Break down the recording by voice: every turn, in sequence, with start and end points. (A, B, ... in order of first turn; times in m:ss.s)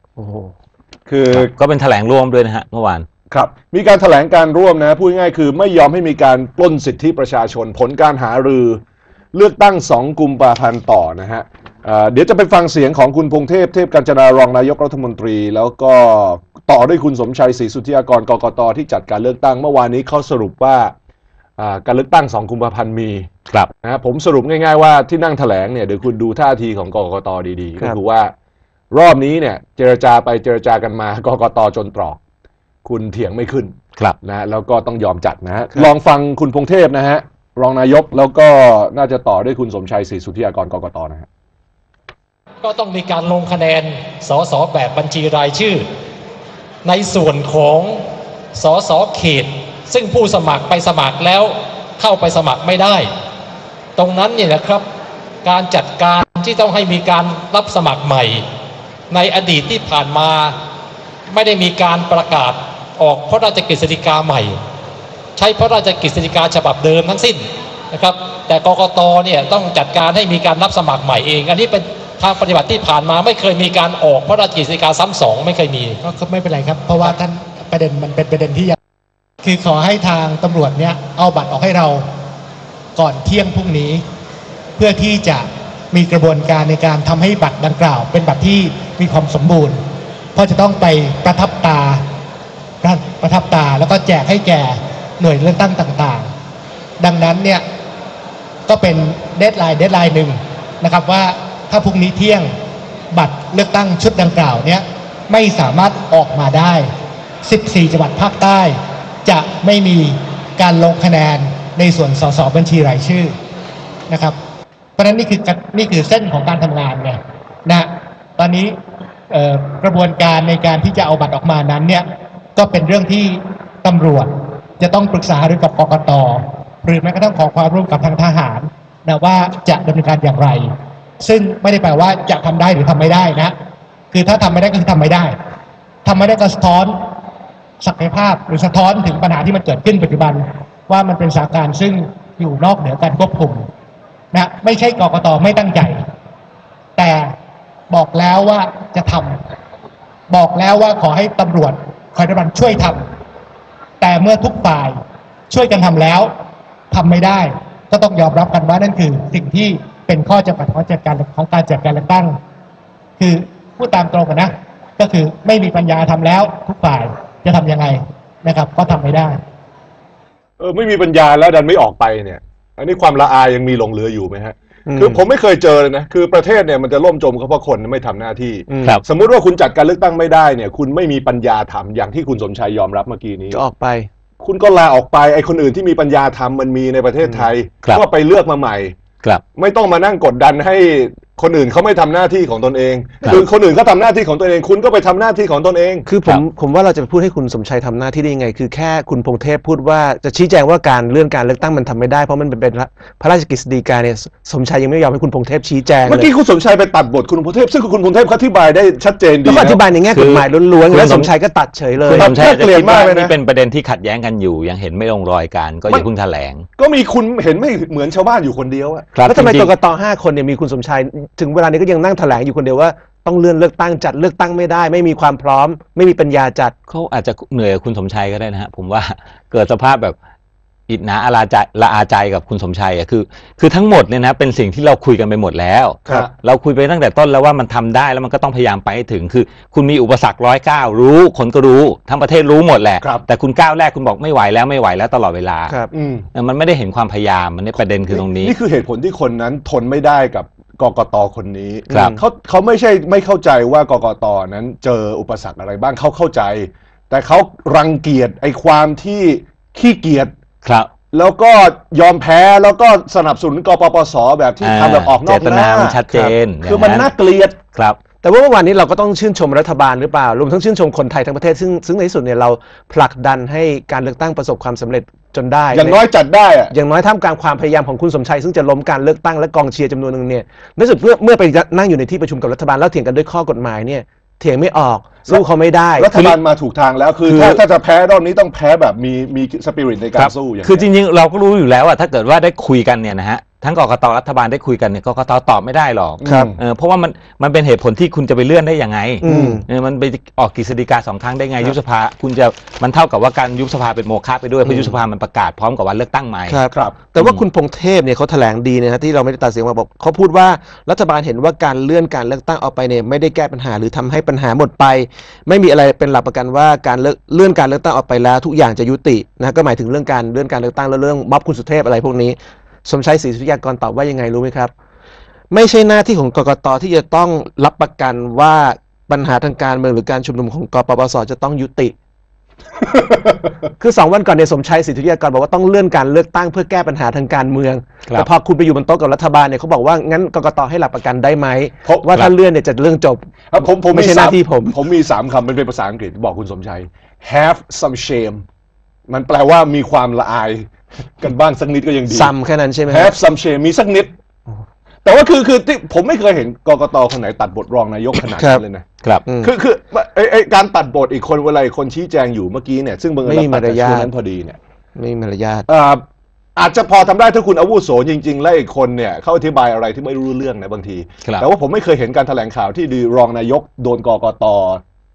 0:00.2-0:00.5 A
0:01.1-0:01.5 B
0:01.3-0:03.0 C
0:03.3-0:08.8 B
0:09.3-0:20.9 B
0:21.6-0:23.3 B
0:23.8-0:28.3 B
0:28.9-0:32.2 B
0:32.8-0:41.3 B
0:42.6-0:45.8 D
0:46.8-0:48.0 D
0:48.5-0:53.1 D
0:54.0-0:54.8 D
0:55.4-0:58.4 D
0:59.1-1:00.6 D
1:01.3-1:04.6 D
1:05.4-1:16.0 D
1:16.0-1:18.8 E
1:19.4-1:22.0 E
1:23.0-1:24.0 E
1:24.8-1:29.8 E
1:30.3-1:32.0 E
1:32.8-1:36.3 E
1:37.0-1:37.6 E
1:38.7-1:42.5 E
1:43.1-1:46.9 E
1:47.4-1:53.3 E
1:54.1-1:54.4 E
1:55.0-1:57.9 E
1:58.4-1:58.7 E
1:59.3-2:02.0 E
2:02.6-2:13.5 E
2:14.1-2:15.3 E
2:16.0-2:16.9 E
2:17.8-2:23.6 E
2:24.3-2:26.0 E
2:27.0-2:27.3 E
2:27.9-2:29.4 E
2:30.3-2:33.0 E
2:34.0-2:34.9 E
2:35.5-2:36.3 E
2:36.9-2:42.4 E
2:43.2-2:49.4 E
2:50.6-3:03.6 B
2:54.9-2:55.2 A
2:58.7-2:59.0 A
3:03.5-3:04.1 A
3:04.4-3:09.0 B
3:09.6-3:16.1 B
3:16.1-3:26.3 A
3:26.0-3:29.8 B
3:29.4-3:32.4 A
3:30.1-3:31.3 C
3:32.0-3:36.6 C
3:32.2-3:33.3 B
3:36.8-3:39.1 B
3:39.1-3:39.7 C
3:39.2-3:46.7 A
3:46.9-3:50.2 C
3:50.9-4:05.7 C
4:05.9-4:06.3 B
4:06.3-4:08.5 C
4:08.1-4:20.3 B
4:11.9-4:12.2 A
4:11.9-4:12.2 C
4:20.6-4:20.9 C
4:21.1-4:26.0 B
4:24.6-4:27.1 C
4:26.6-4:27.6 B
4:28.2-4:36.0 A
4:35.7-4:36.7 B
4:36.7-4:46.1 A
4:46.0-4:50.8 B
4:46.1-4:46.4 C
4:47.2-4:47.6 C
4:50.2-5:06.6 C
4:56.2-4:56.6 B
4:56.2-4:56.5 A
4:59.2-4:59.6 A
4:59.3-4:59.6 B
5:04.6-5:05.0 A
5:06.5-5:24.7 A
5:07.2-5:07.4 C
5:25.5-5:31.9 A
5:33.0-5:33.3 B
5:33.8-5:44.8 A
5:43.5-5:48.4 B
5:49.1-5:50.7 B
5:51.2-5:52.3 B
5:52.1-5:53.1 A
5:52.9-5:54.1 B
5:55.0-5:58.8 B
5:58.4-5:58.6 A
5:59.2-5:59.5 A
5:59.4-6:04.6 B
6:03.2-6:04.1 A
6:05.0-6:05.7 A
6:05.7-6:06.0 B
6:06.6-6:14.8 B